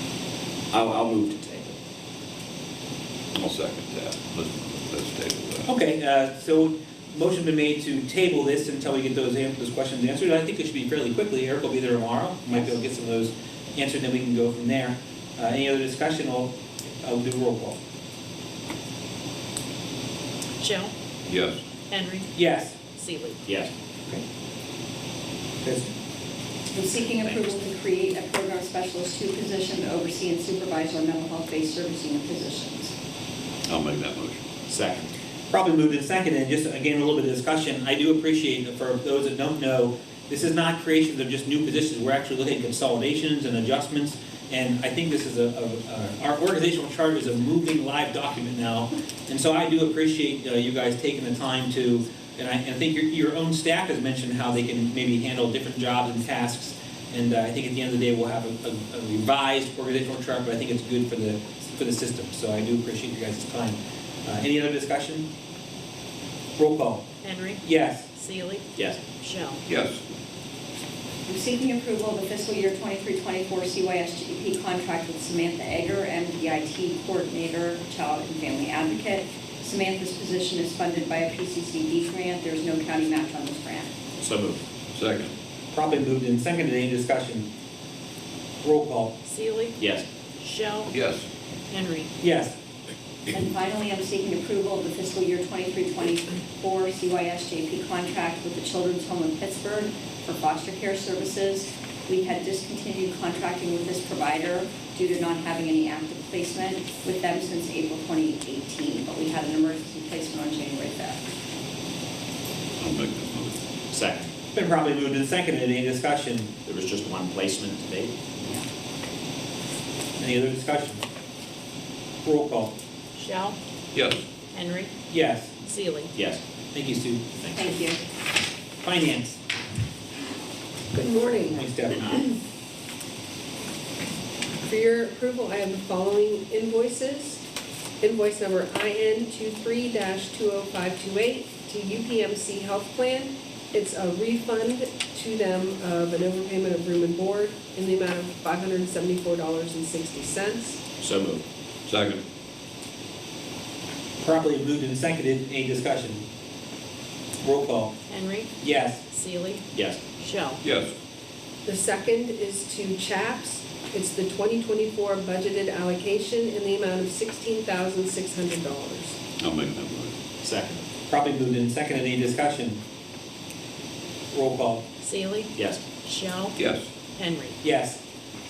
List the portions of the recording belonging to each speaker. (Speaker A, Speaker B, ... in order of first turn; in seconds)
Speaker A: 0.7-1.8, 23.5-23.7, 34.7-35.1, 68.8-69.0, 84.2-84.6, 89.8-90.1, 113.9-114.3, 116.7-118.2, 126.2-126.4, 127.4-127.7, 151.0-151.4, 159.7-160.0, 170.4-170.8, 175.6-175.8
Speaker B: 3.4-5.7, 21.3-21.6, 33.7-34.5, 69.7-70.0, 84.9-85.3, 90.9-91.3, 112.8-113.6, 123.9-124.2, 151.9-152.2, 160.6-160.9, 169.4-170.1, 176.6-176.9
Speaker C: 5.7-17.8, 22.3-22.8, 25.6-25.9, 35.5-65.3, 66.6-67.1, 67.6-68.1, 85.7-87.5, 88.6-89.2, 92.2-92.5, 114.5-116.5, 120.2-121.0, 122.2-122.7, 125.1-125.6, 126.7-127.2, 128.8-129.4, 131.4-132.2, 154.2-156.2, 157.4-158.0, 158.6-159.1, 171.1-172.8, 174.3-174.8, 177.6-178.0
Speaker D: 20.6-20.9, 21.9-23.4, 67.2-67.6, 68.1-69.6, 89.2-89.8, 90.4-90.9, 91.7-92.1, 123.2-123.6, 124.5-124.9, 125.6-126.1, 158.1-158.5, 159.1-159.7, 160.2-160.6, 175.0-175.5, 176.0-176.6, 177.2-177.6
Speaker E: 26.7-32.9, 71.3-83.9, 93.3-111.2, 127.5-128.0
Speaker F: 130.9-131.6, 134.7-137.4, 138.0-150.8, 161.7-169.2